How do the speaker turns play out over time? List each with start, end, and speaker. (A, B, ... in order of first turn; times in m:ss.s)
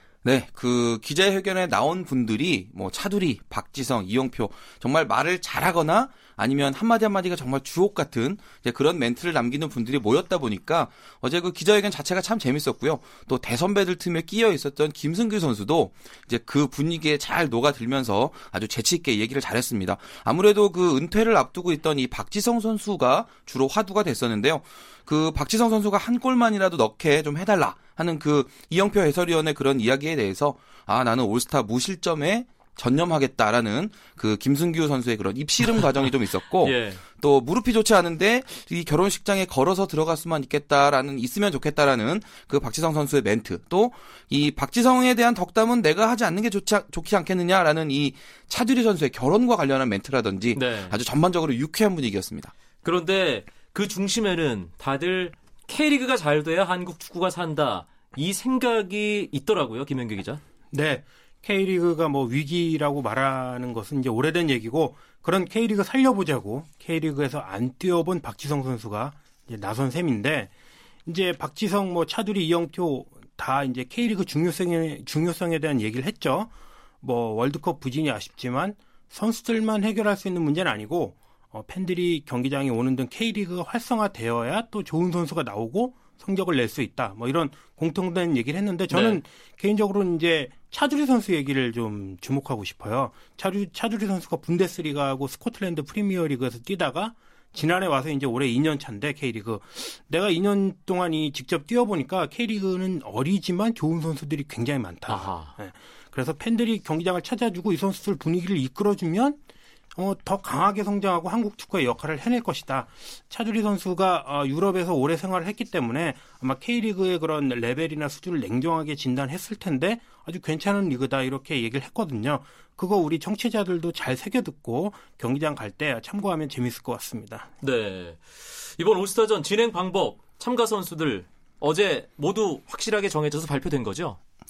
0:00.2-0:52.5 A
0:36.6-0:37.0 B
0:50.5-0:50.9 B
0:52.8-1:00.4 B
1:00.7-1:10.5 C
1:11.0-1:16.5 C
1:17.0-1:49.4 C
1:28.9-1:29.2 B
1:45.1-1:45.5 B
1:49.9-2:07.5 C
2:07.6-2:14.2 B